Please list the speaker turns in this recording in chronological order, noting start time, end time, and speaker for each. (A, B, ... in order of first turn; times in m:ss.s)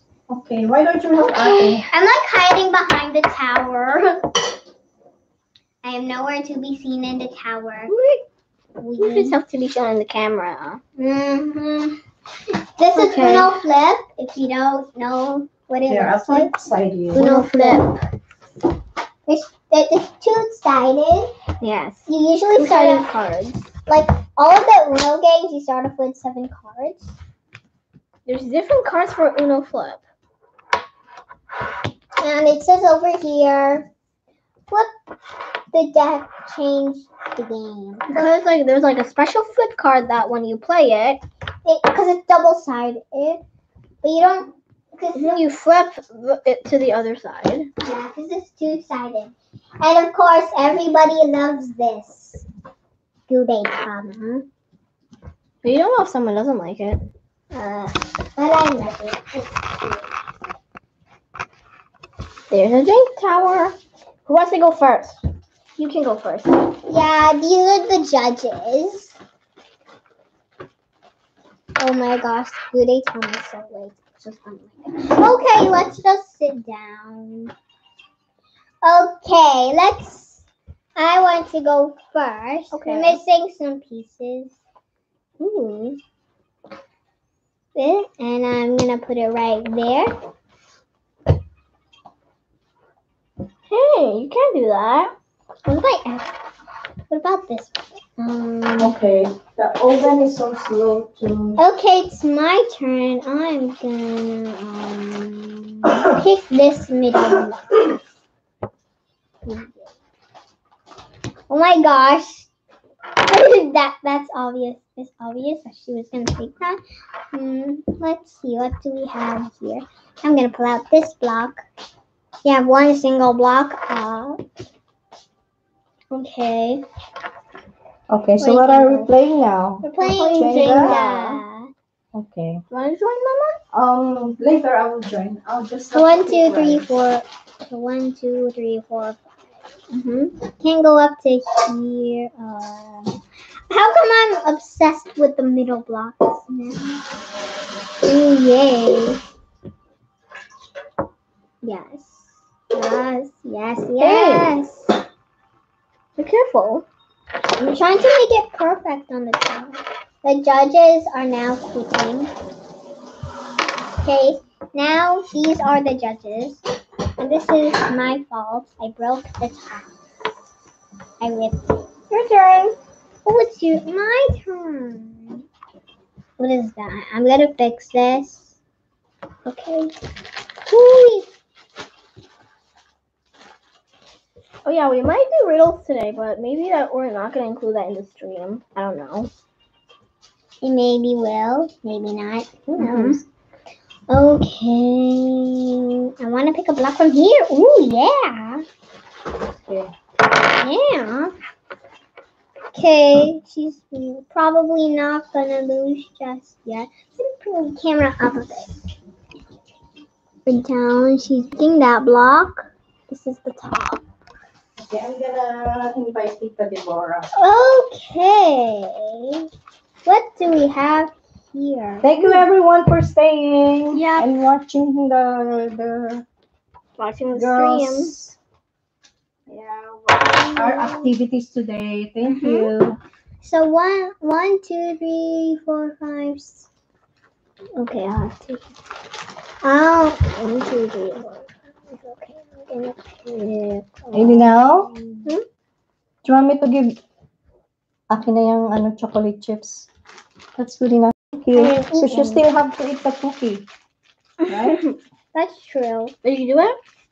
0:00.3-0:01.9 A
0:01.2-0:04.3 B
0:05.8-0:07.9 B
0:07.9-0:08.2 C
0:08.8-0:09.4 B
0:09.0-0:10.8 C
0:11.0-0:12.0 B
0:12.5-0:16.5 B
0:13.0-0:13.6 C
0:15.9-0:17.3 A
0:17.1-0:17.9 B
0:17.2-0:18.0 C
0:19.3-0:21.3 B
0:21.6-0:23.7 C
0:22.1-0:23.1 B
0:23.9-0:27.1 B
0:28.3-0:30.0 C
0:32.2-0:33.9 B
0:35.7-0:38.4 B
0:38.1-0:41.2 C
0:41.6-0:43.4 B
0:44.0-0:45.4 B
0:45.1-0:47.7 C
0:47.8-0:52.4 B
0:53.3-0:54.5 B
0:55.6-0:57.0 C
0:57.5-1:00.1 B
1:02.5-1:05.2 C
1:05.8-1:06.7 C
1:06.9-1:09.2 B
1:11.8-1:17.5 B
1:18.8-1:20.4 B
1:21.0-1:24.6 B
1:22.7-1:23.2 C
1:25.4-1:26.0 C
1:27.8-1:30.2 B
1:33.7-1:35.1 C
1:35.6-1:36.3 B
1:37.1-1:38.9 B
1:38.8-1:41.6 A
1:41.6-1:48.0 B
1:49.4-1:49.9 B
1:51.5-1:52.5 B
1:53.3-1:56.8 B
1:57.3-2:01.6 B
2:02.4-2:04.4 B
2:06.1-2:06.8 B
2:08.1-2:11.0 A
2:08.4-2:09.1 B
2:09.8-2:11.4 C
2:09.8-2:11.7 B
2:12.1-2:12.6 A
2:12.7-2:13.6 C
2:13.7-2:16.9 A
2:15.9-2:19.6 B
2:19.9-2:20.4 C
2:20.5-2:23.2 B
2:23.7-2:27.0 B
2:28.0-2:29.2 B
2:31.6-2:34.9 B
2:34.0-2:34.6 C
2:36.2-2:36.9 C
2:37.6-2:42.3 B
2:44.0-2:46.6 B
2:47.2-2:49.9 B
2:51.2-2:51.9 B
2:52.1-2:52.8 C
2:53.2-2:55.4 B
2:56.4-2:58.6 B
2:59.5-2:59.9 C
2:59.5-2:59.9 B
3:00.7-3:01.3 B
3:04.6-3:09.3 C
3:10.6-3:13.2 B
3:12.7-3:13.2 C
3:14.1-3:18.6 B
3:19.6-3:19.9 A
3:20.6-3:21.4 B
3:22.7-3:28.8 B
3:30.4-3:34.0 B
3:34.8-3:37.3 A
3:37.4-3:39.5 B
3:40.0-3:42.4 B
3:42.0-3:46.2 A
3:43.9-3:44.4 C
3:47.0-3:48.2 C
3:47.3-3:48.4 A
3:49.5-3:53.0 A
3:50.2-3:51.1 B
3:52.2-3:52.8 C
3:53.4-3:56.7 B
3:57.8-3:58.6 C
3:59.6-4:01.4 B
4:00.7-4:01.0 C
4:02.0-4:02.9 B
4:03.2-4:04.3 C
4:04.1-4:05.3 B
4:04.1-4:04.9 A
4:06.2-4:07.0 A
4:08.1-4:09.9 A
4:10.6-4:13.7 A
4:11.6-4:12.3 C
4:11.9-4:12.4 B
4:14.5-4:14.8 A
4:14.6-4:15.0 C
4:15.3-4:16.1 B
4:16.2-4:16.8 C